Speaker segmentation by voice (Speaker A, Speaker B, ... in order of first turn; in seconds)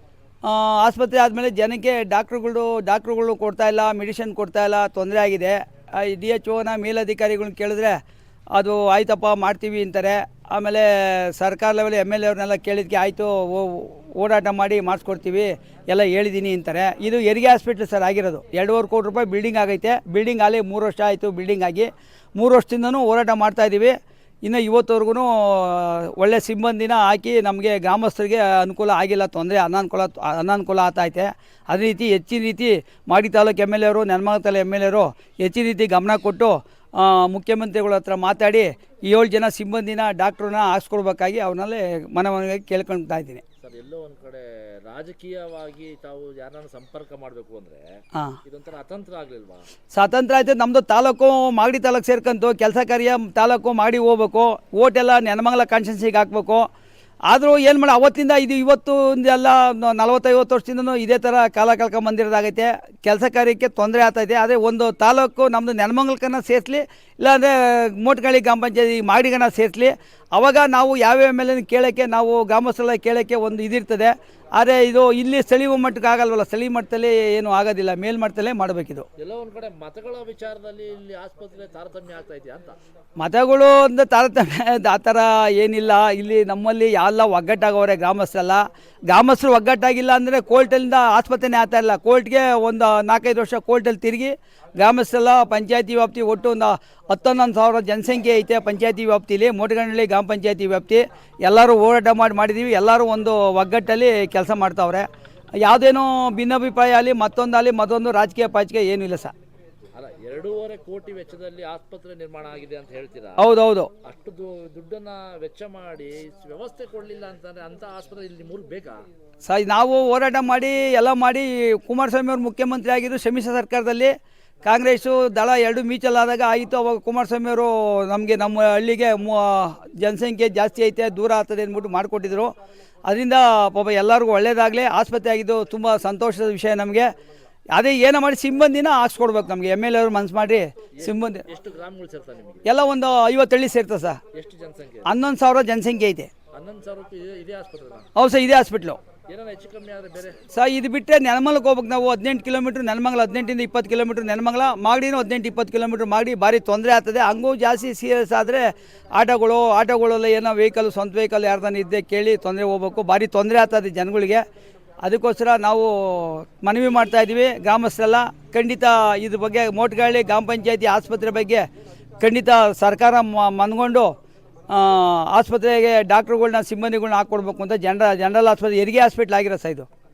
Speaker A: 0.5-8.0, 8.6-23.9, 24.4-43.4, 49.9-56.7, 57.3-79.0, 83.2-105.1, 105.6-109.3, 113.4-113.9, 119.4-124.1, 124.7-132.5, 133.1-137.1, 137.8-141.4, 142.7-144.2, 145.1-146.3, 148.2-149.0, 150.5-158.6, 159.2-164.4, 165.0-171.6, 172.2-174.1, 174.7-179.9
Speaker B: 43.6-47.8, 48.5-49.6, 79.2-82.8, 110.0-113.4, 114.0-119.0, 141.0-142.6, 144.3-145.1, 146.5-148.0, 149.3-150.4